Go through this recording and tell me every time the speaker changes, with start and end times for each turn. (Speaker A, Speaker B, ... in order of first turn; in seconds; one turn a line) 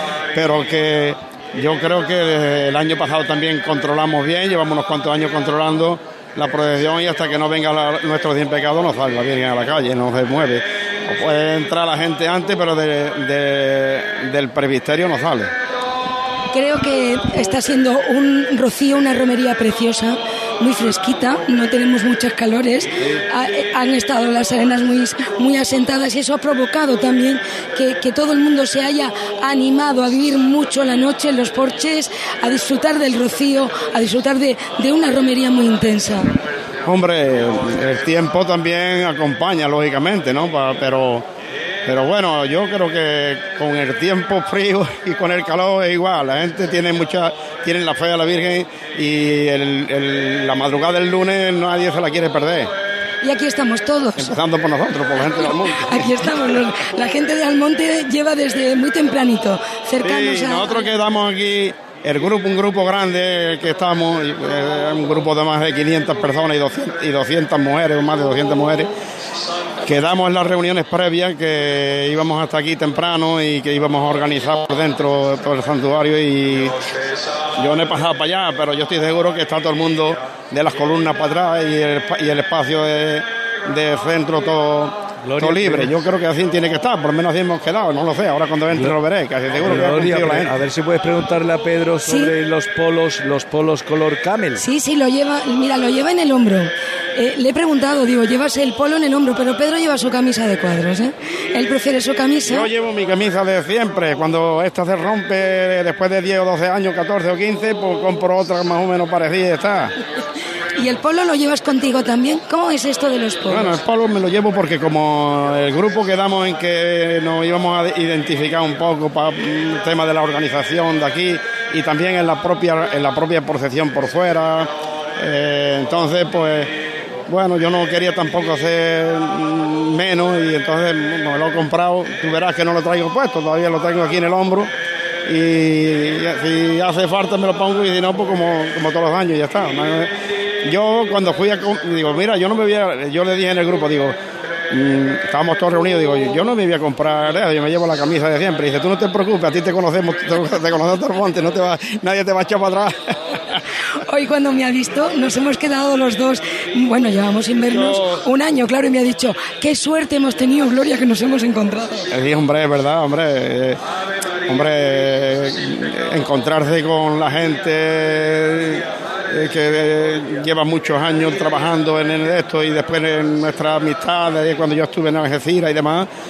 Speaker A: 0.3-15.5
Speaker B: 16.5-36.4
Speaker A: 36.9-41.2
Speaker A: 41.9-52.7
Speaker B: 53.2-54.4
Speaker A: 54.2-56.4
Speaker B: 55.5-60.9
Speaker A: 60.0-68.9
Speaker A: 69.8-76.8
Speaker A: 77.6-90.5
Speaker C: 85.2-85.9
Speaker C: 89.6-94.6
Speaker B: 92.0-92.3
Speaker B: 94.6-102.7
Speaker A: 102.4-109.9
Speaker B: 110.8-113.8
Speaker A: 113.5-126.7
Speaker A: 127.3-134.7
Speaker A: 135.2-140.1
Speaker A: 140.6-144.2
Speaker A: 144.7-153.0
Speaker B: 154.1-162.1
Speaker A: 157.7-158.2
Speaker A: 162.1-163.8
Speaker A: 164.5-176.1